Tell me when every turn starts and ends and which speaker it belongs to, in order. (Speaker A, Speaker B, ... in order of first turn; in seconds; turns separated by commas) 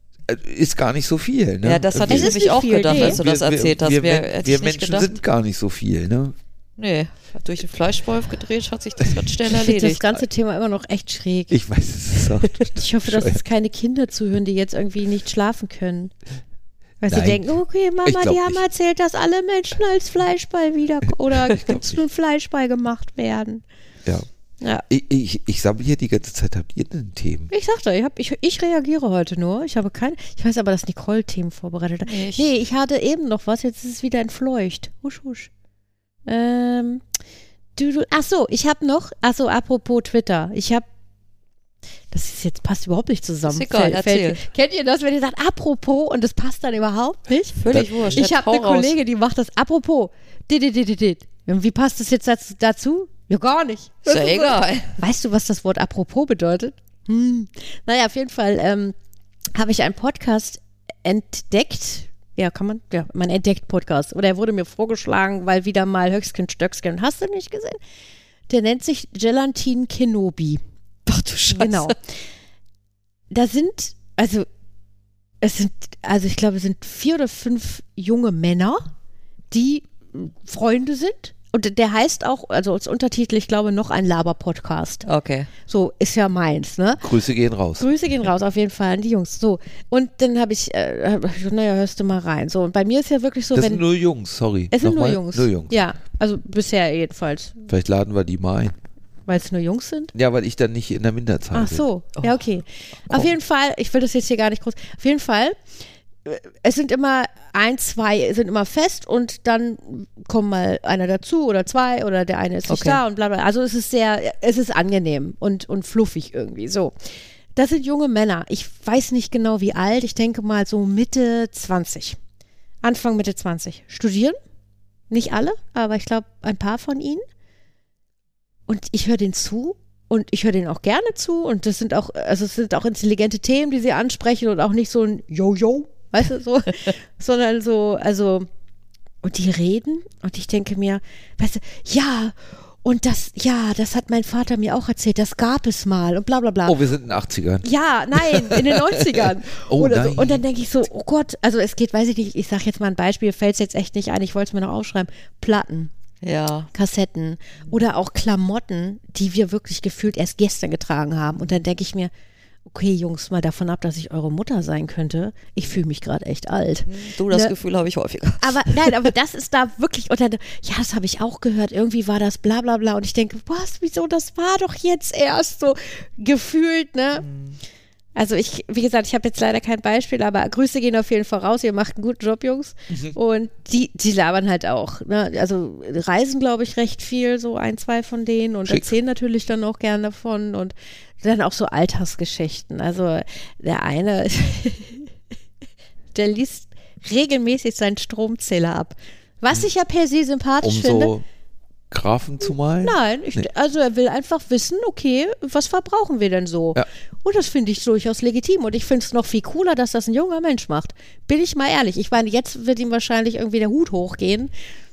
Speaker A: 0.3-6.3, Speaker B: 1.6-5.2, Speaker C: 2.1-3.2, Speaker B: 6.8-10.0, Speaker C: 9.5-11.6, Speaker A: 11.5-13.4, Speaker C: 12.6-16.1, Speaker C: 17.0-23.6, Speaker A: 17.1-17.5, Speaker A: 18.0-18.6, Speaker A: 21.5-22.0, Speaker A: 24.9-27.5, Speaker C: 27.5-35.5, Speaker B: 32.0-32.5, Speaker C: 36.2-37.0, Speaker C: 37.8-40.8, Speaker C: 42.1-47.6, Speaker B: 43.4-44.4, Speaker B: 47.6-48.9, Speaker A: 47.7-48.2, Speaker C: 48.1-58.9, Speaker B: 54.1-55.0, Speaker C: 59.5-67.8, Speaker C: 68.5-70.6, Speaker B: 71.1-71.9, Speaker C: 71.4-72.2, Speaker C: 73.3-74.5, Speaker C: 75.4-78.9, Speaker C: 79.5-85.0, Speaker B: 85.0-85.5, Speaker C: 85.7-87.0, Speaker A: 87.0-87.9, Speaker C: 87.8-93.8, Speaker A: 93.5-95.8, Speaker C: 94.7-97.6, Speaker A: 97.7-98.8, Speaker C: 99.3-100.1, Speaker A: 100.1-101.8, Speaker C: 101.5-105.6, Speaker C: 106.2-116.9, Speaker B: 112.7-113.0, Speaker C: 117.5-122.2, Speaker C: 122.8-124.4, Speaker C: 125.1-127.2, Speaker C: 128.7-138.5, Speaker C: 139.2-146.8, Speaker A: 146.6-150.4, Speaker C: 147.6-155.9, Speaker B: 156.2-156.7, Speaker C: 156.7-162.1, Speaker C: 162.7-167.5, Speaker B: 166.8-169.1, Speaker C: 168.4-177.2, Speaker B: 177.2-177.6, Speaker C: 178.2-195.1, Speaker A: 182.9-183.2, Speaker A: 188.6-188.9, Speaker C: 196.1-201.1, Speaker A: 200.6-201.2, Speaker A: 201.9-203.4, Speaker C: 202.8-214.5